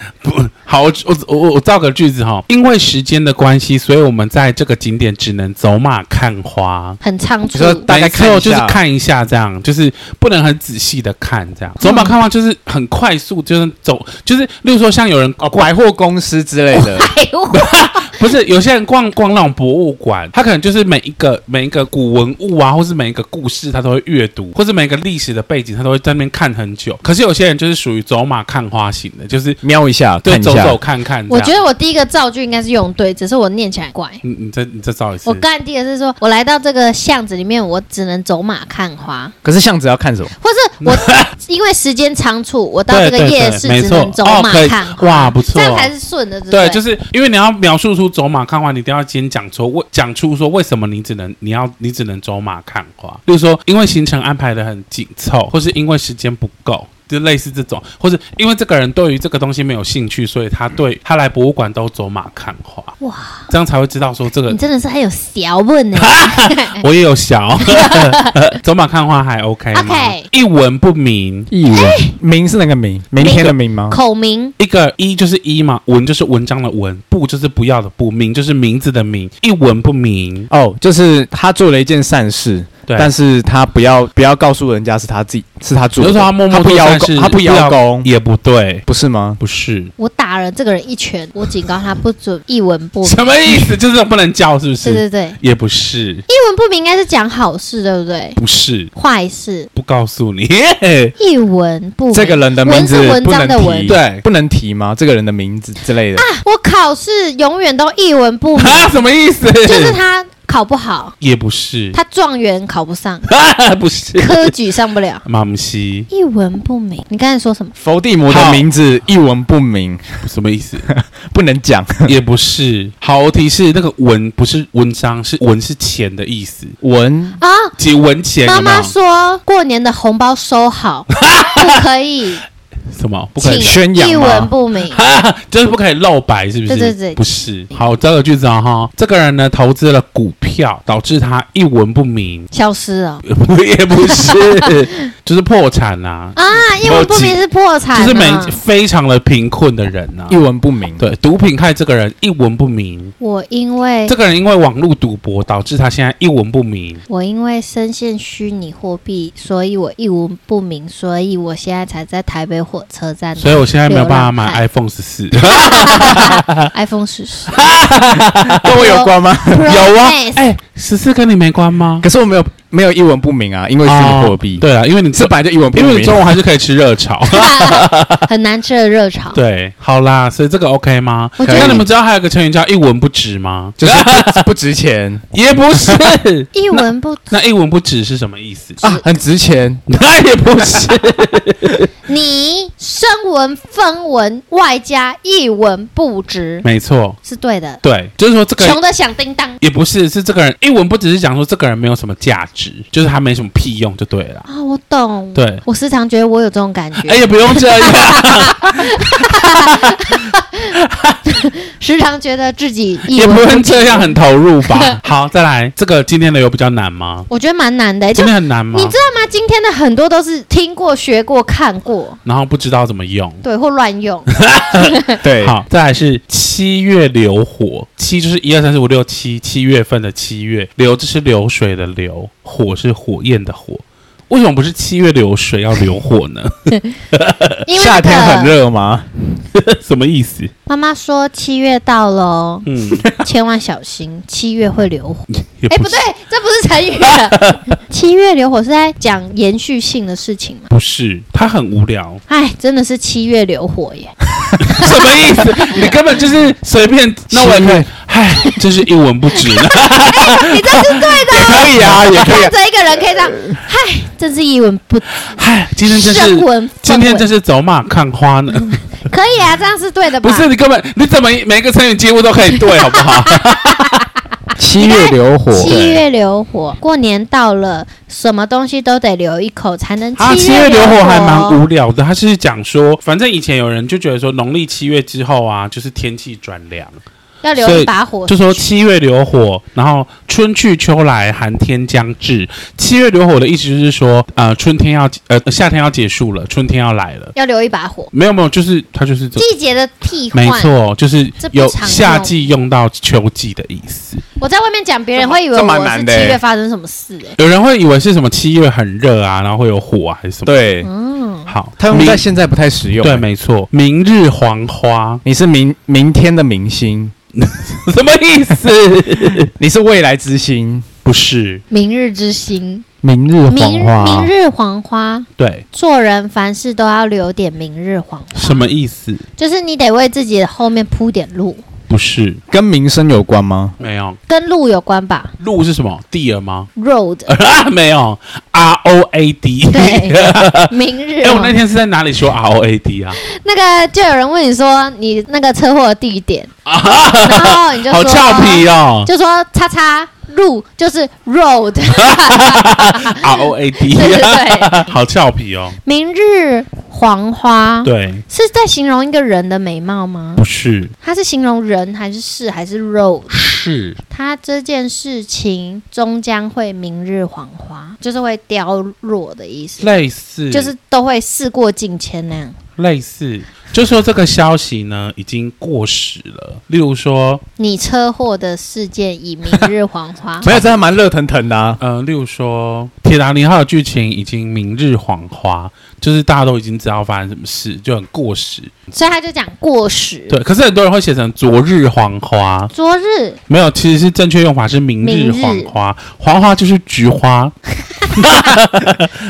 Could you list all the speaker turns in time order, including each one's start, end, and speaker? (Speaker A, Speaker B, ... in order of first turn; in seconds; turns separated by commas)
Speaker A: 0.2-7.0, Speaker B: 7.0-7.8, Speaker C: 7.5-8.8, Speaker A: 7.9-15.7, Speaker B: 11.8-12.1, Speaker C: 15.4-17.1, Speaker B: 16.7-18.3, Speaker A: 17.5-29.6, Speaker C: 29.6-30.8, Speaker A: 30.2-31.6, Speaker B: 31.3-34.2, Speaker A: 34.2-35.4, Speaker B: 35.2-39.3, Speaker C: 39.4-40.3, Speaker B: 40.4-46.8, Speaker A: 40.8-41.3, Speaker A: 42.9-45.9, Speaker A: 46.5-63.0, Speaker B: 63.0-63.5, Speaker A: 63.5-64.6, Speaker B: 64.5-66.8, Speaker A: 66.0-71.5, Speaker B: 67.6-68.3, Speaker B: 69.7-70.3, Speaker C: 71.5-74.0, Speaker B: 71.7-72.1, Speaker B: 73.2-74.5, Speaker A: 74.6-80.5, Speaker C: 80.5-88.1, Speaker A: 82.9-83.1, Speaker A: 86.0-88.8, Speaker C: 88.9-89.4, Speaker A: 89.4-89.9, Speaker B: 90.0-93.8, Speaker A: 93.0-96.2, Speaker B: 94.8-95.4, Speaker B: 96.3-98.4, Speaker A: 98.4-98.9, Speaker B: 99.0-99.7, Speaker A: 99.7-101.1, Speaker B: 101.2-104.0, Speaker C: 102.1-106.2, Speaker A: 103.9-104.2, Speaker B: 106.2-109.0, Speaker A: 108.6-110.0, Speaker B: 109.6-111.1, Speaker A: 111.2-112.0, Speaker B: 111.9-113.3, Speaker A: 113.2-114.5, Speaker B: 114.2-115.2, Speaker A: 115.2-116.1, Speaker B: 116.1-117.7, Speaker C: 117.8-120.0, Speaker A: 118.3-118.7, Speaker A: 120.2-120.9, Speaker C: 120.9-122.2, Speaker A: 122.1-126.8, Speaker C: 126.8-127.4, Speaker B: 127.4-127.8, Speaker A: 127.8-128.9, Speaker B: 128.5-132.4, Speaker A: 131.1-131.8, Speaker A: 132.9-133.8, Speaker B: 133.4-135.0, Speaker C: 133.4-134.5, Speaker A: 134.9-142.5, Speaker B: 136.7-137.2, Speaker B: 142.5-143.2, Speaker A: 143.2-147.4, Speaker B: 144.1-144.7, Speaker B: 146.4-148.6, Speaker A: 147.9-150.4, Speaker C: 150.3-151.0, Speaker A: 151.0-153.1, Speaker B: 153.2-154.1, Speaker A: 154.1-157.0, Speaker B: 157.1-164.6, Speaker A: 163.4-166.7, Speaker B: 165.3-167.7, Speaker A: 167.5-168.7, Speaker C: 168.5-169.8, Speaker B: 168.7-170.5, Speaker A: 169.6-172.1, Speaker C: 172.0-176.4, Speaker A: 173.8-178.2, Speaker B: 177.3-179.4, Speaker A: 179.3-184.5, Speaker B: 181.4-181.8, Speaker C: 181.4-181.9, Speaker C: 183.8-185.2, Speaker A: 185.3-186.5, Speaker B: 186.5-187.3, Speaker A: 187.3-188.8, Speaker C: 188.8-189.8, Speaker A: 189.9-191.9, Speaker B: 192.1-196.7, Speaker A: 196.6-197.2, Speaker B: 197.2-197.8, Speaker A: 197.8-198.8, Speaker B: 198.6-199.6, Speaker A: 199.6-204.5, Speaker B: 204.5-210.7, Speaker A: 205.3-205.6, Speaker A: 207.1-210.2, Speaker A: 210.7-211.2, Speaker B: 211.2-214.2, Speaker A: 213.1-217.3, Speaker B: 214.7-215.0, Speaker B: 217.3-222.2, Speaker A: 218.2-219.0, Speaker A: 222.2-223.4, Speaker B: 223.4-225.2, Speaker A: 224.3-237.6, Speaker C: 225.2-225.6, Speaker B: 237.7-238.6, Speaker C: 237.7-239.1, Speaker A: 239.5-240.5, Speaker B: 240.7-250.7, Speaker A: 242.7-243.1, Speaker A: 245.3-246.0, Speaker A: 247.0-247.7, Speaker A: 250.7-252.2, Speaker B: 252.3-255.9, Speaker A: 254.6-262.5, Speaker C: 257.3-257.9, Speaker B: 259.3-265.1, Speaker C: 261.3-262.5, Speaker A: 265.2-268.8, Speaker B: 265.9-267.3, Speaker B: 269.0-270.5, Speaker A: 270.2-274.1, Speaker B: 272.9-274.1, Speaker C: 274.6-276.0, Speaker B: 274.8-281.6, Speaker A: 280.2-287.0, Speaker B: 287.4-288.6, Speaker A: 287.6-297.3, Speaker B: 297.4-298.1, Speaker A: 298.1-299.5, Speaker B: 299.4-300.7, Speaker A: 300.3-304.2, Speaker B: 301.4-302.4, Speaker B: 304.4-307.4, Speaker C: 305.3-306.4, Speaker A: 307.4-310.5, Speaker C: 310.5-310.9, Speaker B: 310.8-311.5, Speaker A: 311.5-312.2, Speaker C: 311.8-313.2, Speaker A: 313.0-315.2, Speaker C: 315.2-317.1, Speaker A: 317.4-319.5, Speaker C: 319.6-320.9, Speaker A: 321.1-321.6, Speaker B: 321.7-322.9, Speaker C: 323.0-324.3, Speaker B: 323.5-328.7, Speaker A: 325.4-325.6, Speaker A: 328.4-329.2, Speaker B: 329.4-331.6, Speaker A: 331.9-332.4, Speaker C: 332.5-333.8, Speaker A: 333.8-334.2, Speaker B: 334.3-335.4, Speaker A: 335.4-336.7, Speaker B: 336.8-337.3, Speaker A: 337.3-340.7, Speaker B: 339.7-341.6, Speaker A: 341.2-343.2, Speaker B: 343.2-346.5, Speaker A: 346.7-349.1, Speaker B: 347.2-354.9, Speaker A: 352.0-355.8, Speaker B: 355.9-360.4, Speaker A: 357.8-358.2, Speaker A: 360.4-360.9, Speaker B: 361.0-363.4, Speaker A: 363.3-364.0, Speaker B: 364.1-369.9, Speaker A: 369.8-370.7, Speaker B: 370.5-372.6, Speaker A: 372.8-377.4, Speaker B: 377.6-380.5, Speaker C: 380.4-381.8, Speaker A: 381.8-388.7, Speaker B: 388.9-390.4, Speaker A: 390.3-392.7, Speaker B: 392.7-393.4, Speaker A: 393.5-397.6, Speaker B: 395.0-395.7, Speaker B: 398.0-398.6, Speaker A: 398.1-399.1